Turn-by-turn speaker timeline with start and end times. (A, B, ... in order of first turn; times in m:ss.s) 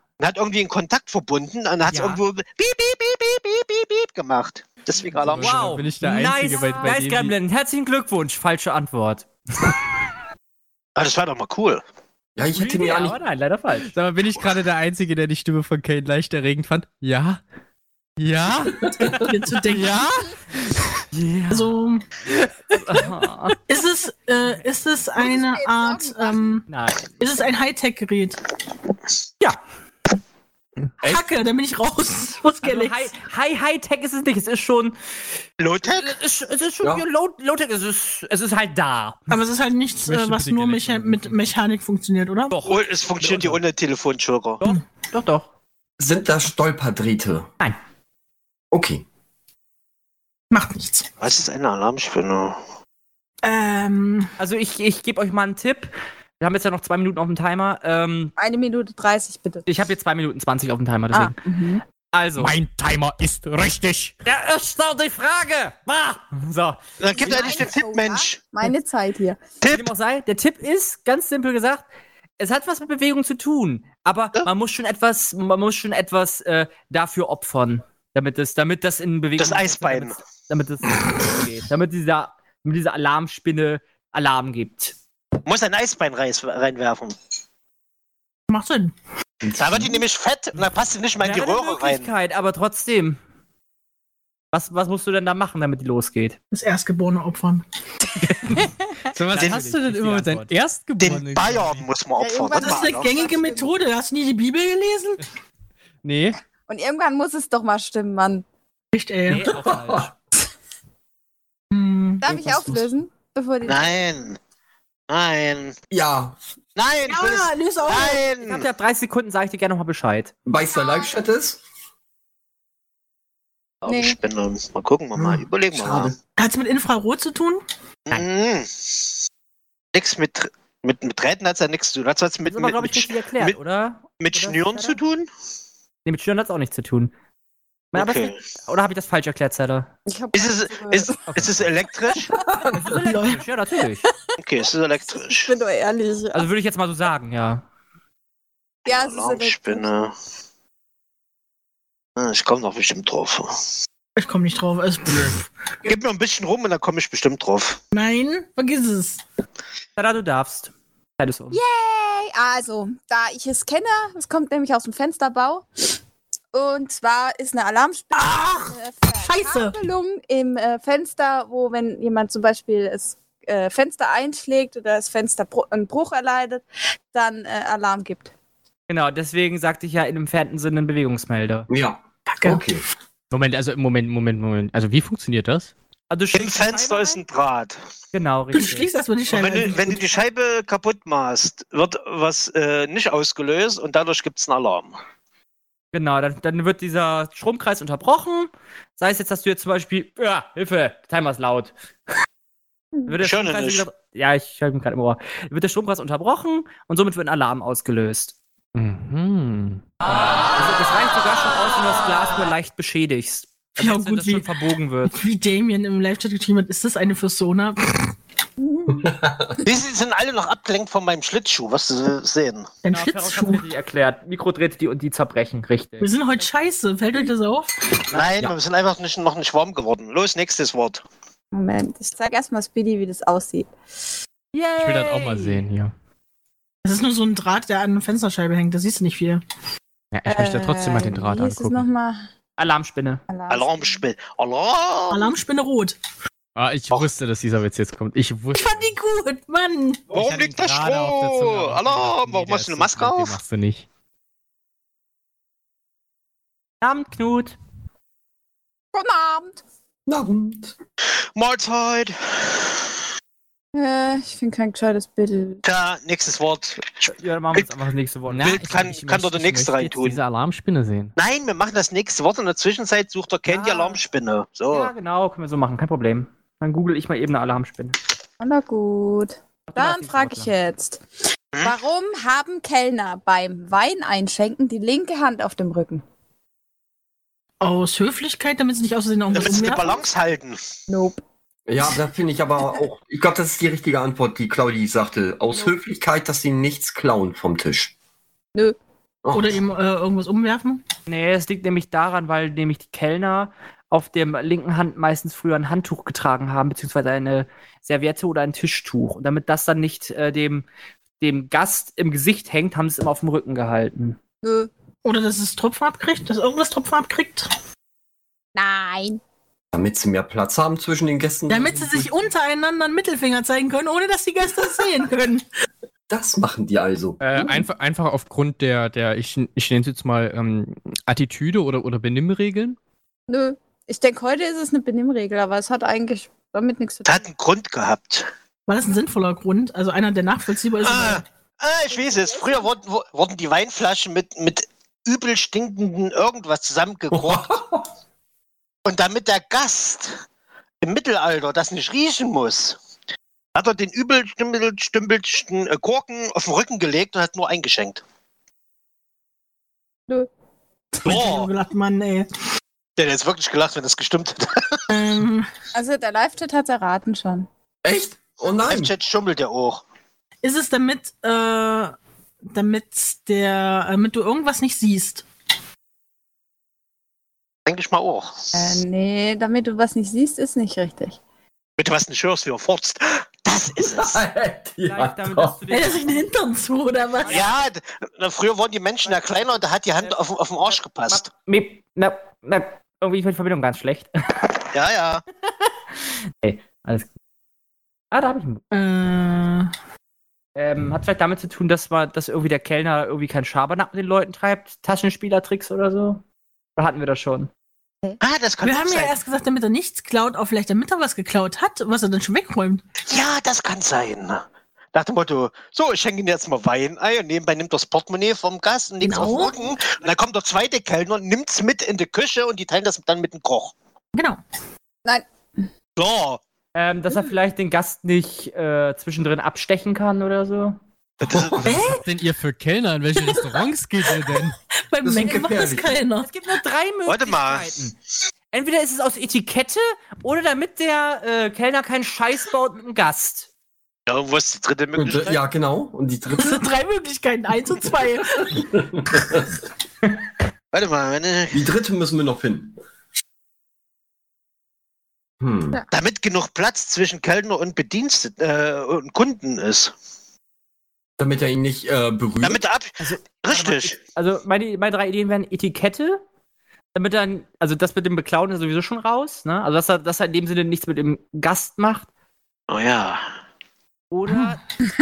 0:00.2-0:05.6 A
0:01.9-0:02.2 B
0:05.1-0:07.4 C
0:05.4-0:09.3 B
0:11.0-0:11.8 A
0:12.4-0:13.2 D
0:12.5-0:13.9 B
0:13.9-0:17.4 C
0:18.2-0:20.3 C
0:19.1-0:20.1 E
0:19.7-0:20.0 B
0:21.1-0:21.7 B
0:21.5-0:22.1 E
0:22.7-0:23.6 B
0:23.7-0:26.6 E
0:25.2-0:26.6 F
0:26.7-0:27.1 B
0:27.2-0:28.4 E
0:31.0-0:33.1 E
0:32.6-0:35.0 B
0:35.6-0:36.2 A
0:35.8-0:39.2 B
0:39.3-0:42.6 E
0:40.1-0:41.4 C
0:42.5-0:43.6 B
0:42.7-0:44.6 A
0:44.6-0:45.5 B
0:46.0-0:47.5 D
0:48.7-0:49.0 D
0:50.5-0:51.1 E
0:51.2-0:52.6 A
0:53.4-0:54.3 E
0:54.4-0:58.3 B
0:58.4-0:59.7 F
0:59.7-1:01.4 B
1:01.1-1:01.8 F
1:02.1-1:02.6 B
1:02.4-1:04.2 C
1:04.2-1:07.7 B
1:07.0-1:08.5 A
1:07.1-1:09.4 F
1:09.6-1:09.9 A
1:09.7-1:11.8 B
1:12.4-1:25.0 B
1:19.4-1:20.2 A
1:25.4-1:27.2 A
1:28.5-1:29.0 E
1:29.4-1:30.0 D
1:29.5-1:32.1 A
1:31.2-1:33.2 B
1:34.5-1:36.4 B
1:36.5-1:37.6 E
1:39.1-1:41.8 C
1:39.3-1:40.5 B
1:41.0-1:43.1 A
1:42.2-1:43.8 F
1:42.6-1:45.2 E
1:46.0-1:46.4 C
1:46.7-1:48.4 F
1:48.9-1:49.5 E
1:49.3-1:50.1 B
1:49.4-1:50.1 D
1:51.7-1:52.2 E
1:52.2-1:54.0 F
1:52.3-1:52.9 D
1:53.6-1:54.4 A
1:55.1-1:55.8 A
1:55.9-1:56.4 D
1:56.8-1:58.7 A
1:57.1-1:58.2 E
1:58.4-2:00.3 B
2:00.5-2:01.6 D
2:03.8-2:06.1 A
2:03.9-2:04.2 F
2:05.2-2:06.2 D
2:06.4-2:07.6 E
2:08.1-2:08.9 A
2:10.0-2:13.6 A
2:12.4-2:15.0 B
2:14.2-2:15.3 A
2:16.0-2:17.1 B
2:17.9-2:19.9 B
2:18.0-2:18.4 A
2:20.1-2:21.2 F
2:20.3-2:22.3 A
2:21.3-2:21.6 B
2:22.2-2:22.6 F
2:22.5-2:22.9 D
2:22.8-2:24.0 B
2:22.8-2:23.4 E
2:24.4-2:25.5 A
2:25.0-2:26.5 F
2:26.3-2:27.6 B
2:28.9-2:29.9 F
2:28.9-2:30.1 A
2:32.2-2:33.5 A
2:34.2-2:35.5 E
2:35.8-2:37.8 A
2:37.9-2:39.2 E
2:40.0-2:41.6 B
2:41.5-2:45.7 F
2:46.5-2:58.3 F
2:48.2-2:49.8 E
2:58.9-3:01.7 B
3:01.7-3:02.8 D
3:02.3-3:02.7 E
3:03.3-3:05.7 C
3:06.1-3:07.2 B
3:06.3-3:07.8 A
3:08.1-3:08.9 B
3:08.5-3:10.1 E
3:09.3-3:15.0 A
3:15.9-3:21.7 B
3:23.1-3:28.3 B
3:23.2-3:23.8 A
3:28.8-3:29.8 C
3:30.0-3:35.1 B
3:33.8-3:34.5 E
3:35.1-3:38.1 E
3:38.6-3:39.1 F
3:38.9-3:39.6 D
3:39.6-3:42.7 A
3:42.8-3:43.7 E
3:42.9-3:46.1 B
3:46.0-3:47.9 E
3:48.1-3:48.5 B
3:48.1-3:51.0 A
3:51.5-3:53.7 F
3:54.5-3:55.6 B
3:54.8-3:55.9 C
3:56.8-3:59.4 E
4:00.1-4:01.9 C
4:00.3-4:02.3 F
4:02.6-4:03.2 B
4:03.3-4:04.0 F
4:03.5-4:05.3 A
4:05.1-4:06.0 E
4:06.6-4:08.9 C
4:08.5-4:10.1 E
4:10.1-4:13.4 A
4:10.1-4:13.9 C
4:16.8-4:17.6 B
4:18.9-4:19.6 F
4:20.1-4:20.8 D
4:21.4-4:22.6 A
4:23.7-4:25.6 F
4:25.6-4:27.7 A
4:27.0-4:28.6 B
4:28.3-4:31.1 C
4:28.4-4:30.2 A
4:31.2-4:34.9 A
4:33.5-4:34.0 B
4:34.7-4:38.0 B
4:38.4-4:41.0 F
4:39.7-4:40.5 B
4:41.6-4:46.0 F
4:47.6-4:50.0 E
4:49.3-4:50.6 A
4:50.9-4:51.2 F
4:51.7-4:57.9 D
4:59.2-4:59.6 D
4:59.3-5:00.8 E
5:01.1-5:10.7 B
5:11.2-5:14.2 B
5:14.4-5:14.7 F
5:15.0-5:17.5 E
5:18.6-5:19.2 F
5:19.7-5:22.2 D
5:21.5-5:25.4 E
5:26.1-5:27.2 D
5:27.2-5:32.8 C
5:33.3-5:37.2 F
5:37.1-5:38.3 A
5:38.7-5:41.2 E
5:40.8-5:47.5 A
5:42.1-5:42.6 F
5:47.1-5:47.8 D
5:48.8-5:50.2 A
5:50.8-5:52.8 A
5:53.6-5:58.0 A
6:01.0-6:02.3 E
6:01.0-6:01.5 A
6:03.0-6:04.8 A
6:04.9-6:05.5 E
6:05.8-6:07.5 F
6:07.8-6:08.9 D
6:08.6-6:09.8 A
6:10.4-6:15.2 E
6:17.7-6:18.3 A
6:18.6-6:21.2 F
6:21.8-6:24.2 A
6:23.8-6:25.6 D
6:24.8-6:26.1 B
6:25.7-6:27.4 E
6:27.2-6:27.6 B
6:27.3-6:31.2 A
6:29.0-6:30.2 B
6:31.1-6:34.4 B
6:34.7-6:35.2 A
6:36.4-6:37.1 B
6:38.1-6:38.6 B
6:38.7-6:39.7 E
6:40.6-6:46.2 B
6:46.8-6:47.5 B
6:48.2-6:49.1 A
6:48.6-6:52.8 E
6:53.1-7:03.7 A
6:59.0-6:59.6 E
7:04.2-7:04.4 E
7:06.0-7:06.4 A
7:06.8-7:10.8 B
7:11.2-7:11.7 A
7:11.2-7:11.8 D
7:11.6-7:12.0 E
7:11.8-7:14.6 C
7:13.4-7:13.6 E
7:14.2-7:16.3 E
7:15.0-7:16.0 D
7:15.3-7:15.5 B
7:16.2-7:17.9 B
7:17.1-7:17.7 A
7:18.5-7:23.5 B
7:24.1-7:25.4 A
7:25.0-7:26.6 D
7:26.3-7:28.6 E
7:28.5-7:29.6 D
7:30.7-7:31.6 A
7:31.5-7:32.8 D
7:35.4-7:35.8 D
7:35.9-7:39.9 A
7:41.2-7:42.6 D
7:42.4-7:44.0 A
7:43.0-7:46.2 B
7:47.0-7:52.1 B
7:52.7-7:53.3 A
7:54.1-7:54.6 B
7:54.3-7:54.6 E